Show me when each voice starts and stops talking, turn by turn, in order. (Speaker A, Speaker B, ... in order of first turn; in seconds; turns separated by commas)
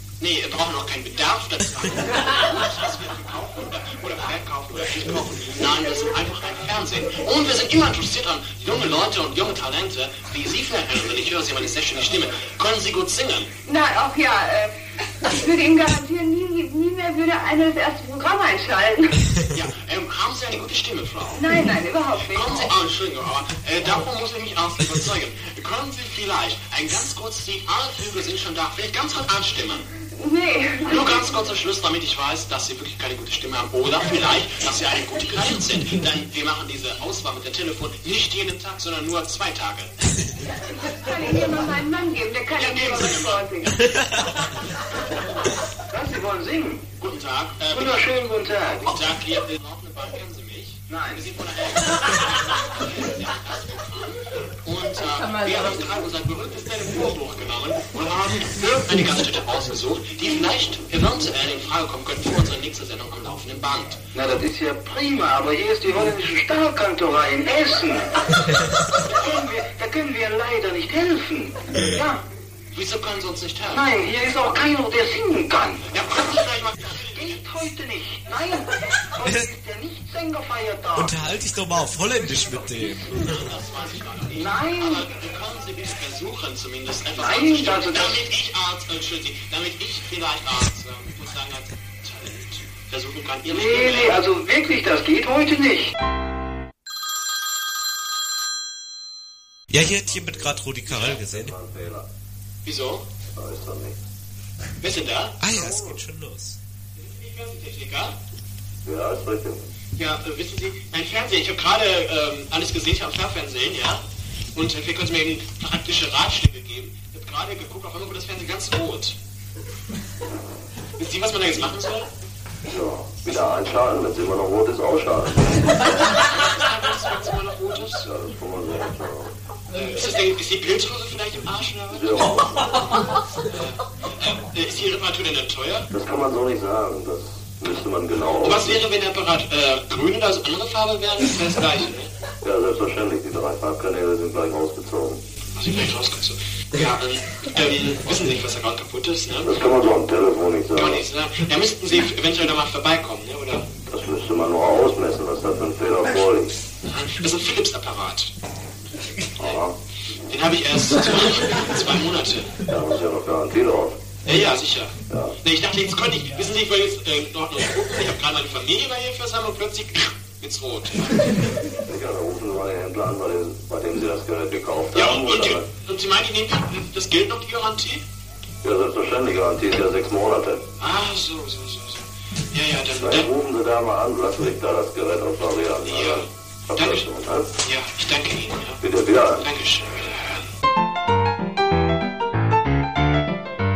Speaker A: 0.2-13.5, Speaker B: 13.6-19.1, Speaker A: 19.5-21.6, Speaker B: 21.3-22.7, Speaker A: 22.1-29.9, Speaker B: 30.1-31.2, Speaker A: 30.8-39.9, Speaker B: 40.5-43.7, Speaker A: 42.5-43.7, Speaker C: 45.9-46.8, Speaker A: 47.0-48.2, Speaker A: 48.8-64.0, Speaker C: 64.2-68.0, Speaker C: 69.1-72.2, Speaker A: 72.7-73.9, Speaker C: 74.1-75.6, Speaker A: 75.9-77.7, Speaker C: 78.0-78.4, Speaker D: 79.2-79.5, Speaker C: 79.6-80.0, Speaker D: 80.9-83.3, Speaker A: 83.1-94.2, Speaker D: 99.7-101.6, Speaker E: 99.9-102.1, Speaker A: 102.6-103.0, Speaker E: 103.3-104.0, Speaker A: 104.8-105.4, Speaker D: 105.4-106.6, Speaker E: 105.5-106.0, Speaker A: 107.0-108.1, Speaker E: 108.8-109.7, Speaker A: 110.0-114.0, Speaker A: 114.5-119.2, Speaker A: 121.0-122.1, Speaker E: 122.7-125.7, Speaker A: 125.8-128.1, Speaker E: 128.0-129.3, Speaker A: 129.7-135.9, Speaker E: 131.9-132.9, Speaker E: 135.9-138.8, Speaker A: 138.3-142.1, Speaker E: 142.4-145.2, Speaker A: 145.5-149.6, Speaker E: 149.4-151.0, Speaker A: 150.7-153.7, Speaker E: 153.8-156.5, Speaker A: 156.8-158.3, Speaker E: 159.4-159.7, Speaker A: 160.3-162.5, Speaker E: 162.7-164.0, Speaker A: 164.2-171.3, Speaker E: 165.1-165.3, Speaker E: 171.9-175.7, Speaker A: 174.9-178.0, Speaker E: 178.6-180.6, Speaker A: 180.8-183.3, Speaker E: 182.9-187.5, Speaker A: 185.8-187.1, Speaker A: 187.6-188.8, Speaker E: 188.8-189.4, Speaker A: 189.3-190.5